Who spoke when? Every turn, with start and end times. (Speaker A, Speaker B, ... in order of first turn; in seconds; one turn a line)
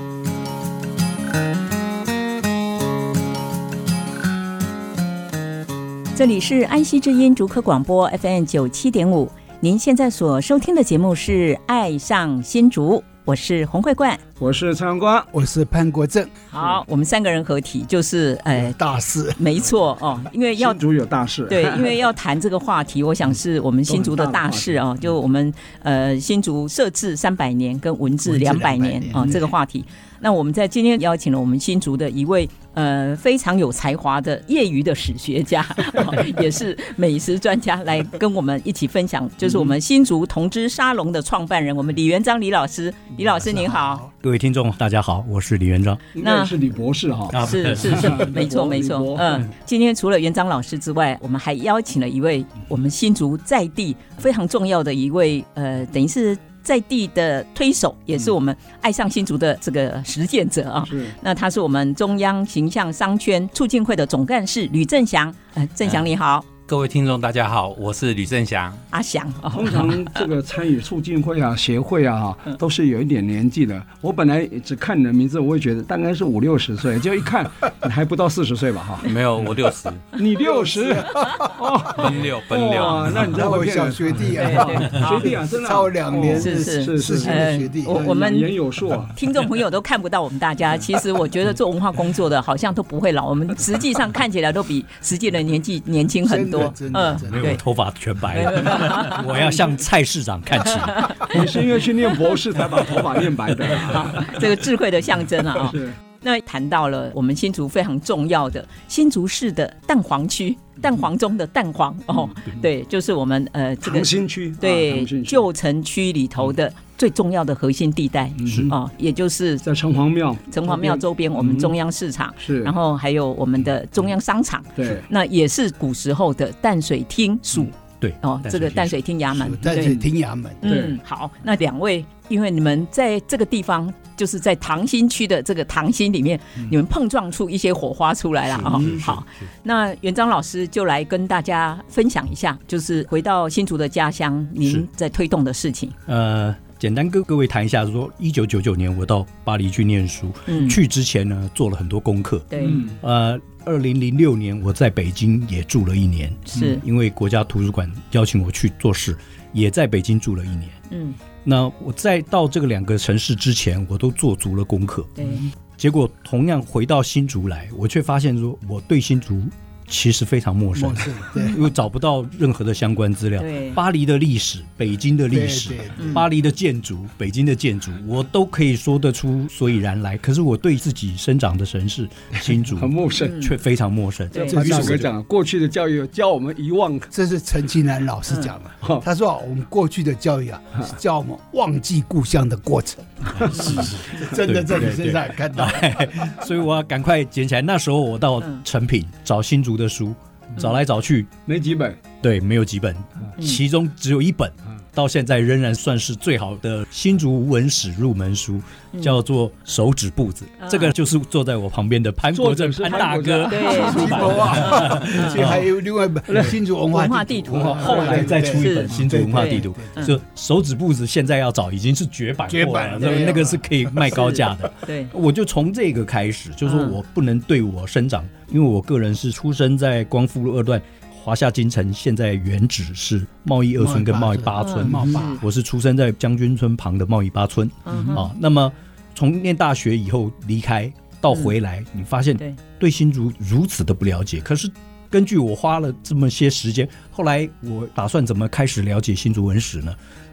Speaker A: 6.2-14.2
Speaker B: 14.4-15.3
Speaker C: 15.3-16.4
Speaker A: 16.5-18.8
Speaker C: 18.5-19.4
Speaker A: 19.4-20.8
Speaker B: 20.6-22.0
Speaker A: 21.5-44.1
Speaker B: 23.9-24.8
Speaker C: 28.3-29.5
Speaker B: 39.5-39.7
Speaker C: 43.3-44.1
Speaker D: 44.2-46.0
Speaker B: 46.1-49.5
Speaker A: 46.2-46.5
Speaker D: 47.3-48.2
Speaker A: 47.4-66.5
Speaker B: 60.8-61.2
Speaker E: 66.7-68.9
Speaker A: 68.9-70.0
Speaker B: 69.5-79.1
Speaker E: 79.0-80.1
Speaker B: 80.1-89.2
Speaker C: 80.4-81.6
Speaker E: 81.9-83.2
Speaker C: 83.2-88.1
Speaker A: 84.3-85.0
Speaker A: 86.3-88.5
Speaker A: 89.1-97.6
Speaker C: 96.3-97.6
Speaker D: 97.3-101.3
Speaker A: 98.3-99.4
Speaker A: 100.9-101.4
Speaker B: 101.2-104.4
Speaker A: 103.8-119.7
Speaker B: 105.6-106.0
Speaker B: 113.8-115.5
Speaker B: 118.4-118.7
Speaker D: 118.5-118.7
Speaker B: 119.6-121.7
Speaker A: 120.5-130.0
Speaker B: 122.4-122.7
Speaker B: 124.8-125.1
Speaker D: 127.5-129.0
Speaker C: 129.3-130.7
Speaker B: 129.8-130.0
Speaker A: 130.6-146.0
Speaker B: 130.7-131.0
Speaker D: 138.4-139.4
Speaker D: 144.6-144.9
Speaker D: 146.1-160.8
Speaker A: 150.5-150.8
Speaker A: 152.5-152.9
Speaker B: 152.6-153.0
Speaker A: 156.5-156.8
Speaker A: 160.9-161.2
Speaker D: 161.4-165.2
Speaker A: 165.2-165.5
Speaker D: 165.8-185.1
Speaker C: 170.8-171.6
Speaker A: 173.4-173.8
Speaker C: 175.3-176.2
Speaker A: 176.0-176.2
Speaker B: 182.7-183.4
Speaker A: 183.2-183.6
Speaker A: 184.3-184.6
Speaker B: 184.3-187.1
Speaker C: 184.6-185.1
Speaker C: 187.1-196.1
Speaker D: 193.4-201.3
Speaker A: 193.5-193.9
Speaker B: 201.5-202.0
Speaker D: 202.2-215.6
Speaker A: 210.6-210.9
Speaker B: 212.3-214.3
Speaker A: 213.5-215.5
Speaker C: 213.8-219.9
Speaker B: 216.3-216.6
Speaker A: 216.9-220.2
Speaker D: 217.5-250.0
Speaker C: 222.5-224.2
Speaker A: 224.8-225.1
Speaker A: 226.7-227.0
Speaker C: 233.8-235.4
Speaker A: 234.6-235.4
Speaker A: 237.8-238.3